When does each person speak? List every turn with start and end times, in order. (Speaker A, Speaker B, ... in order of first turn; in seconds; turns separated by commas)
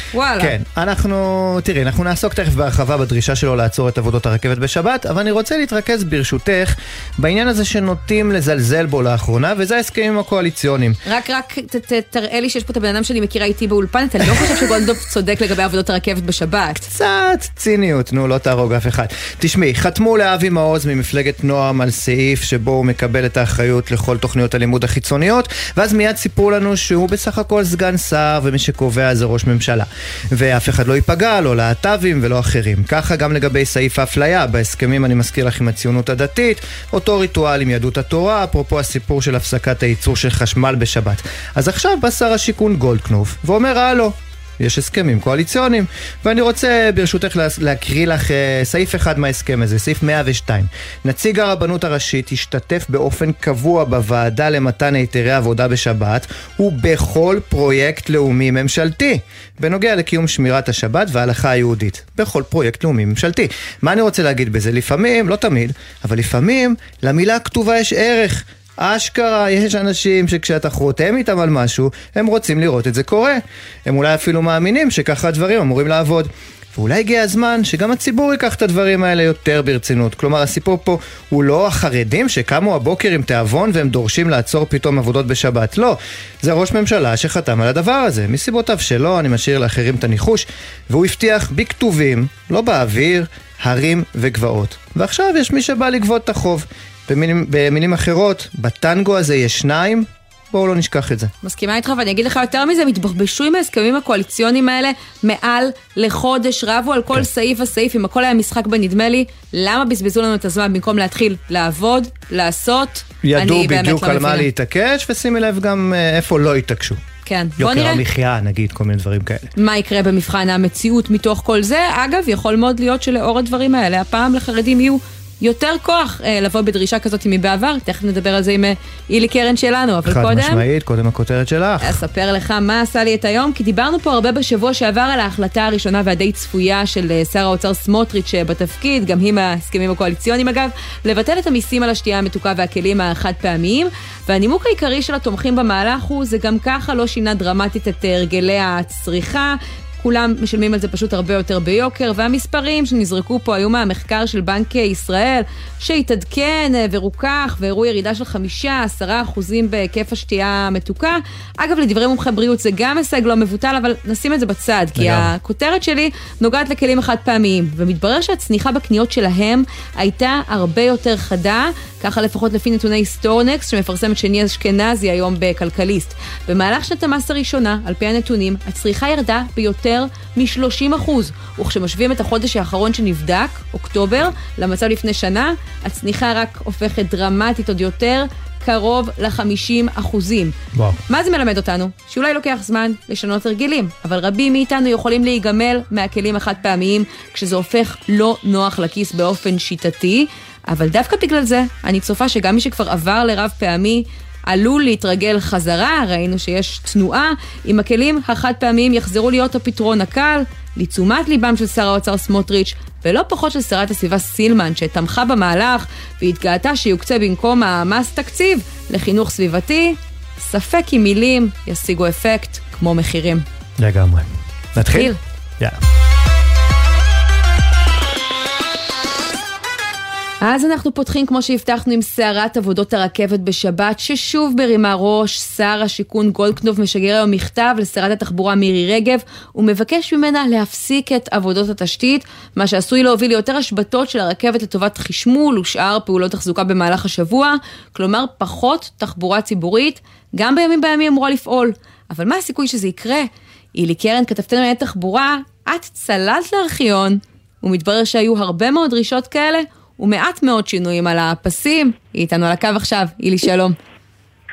Speaker A: 0.1-0.5, Speaker B: 0.4-11.0, Speaker A: 11.1-16.8, Speaker B: 16.8-101.3, Speaker A: 101.4-114.5, Speaker B: 113.2-117.0, Speaker A: 117.2-118.0, Speaker B: 117.6-119.5, Speaker A: 119.6-130.6, Speaker B: 130.1-131.9, Speaker A: 131.8-190.5, Speaker B: 165.0-165.3, Speaker B: 190.7-191.0, Speaker A: 191.1-223.4, Speaker B: 223.8-225.8, Speaker A: 224.8-225.2, Speaker A: 230.4-263.7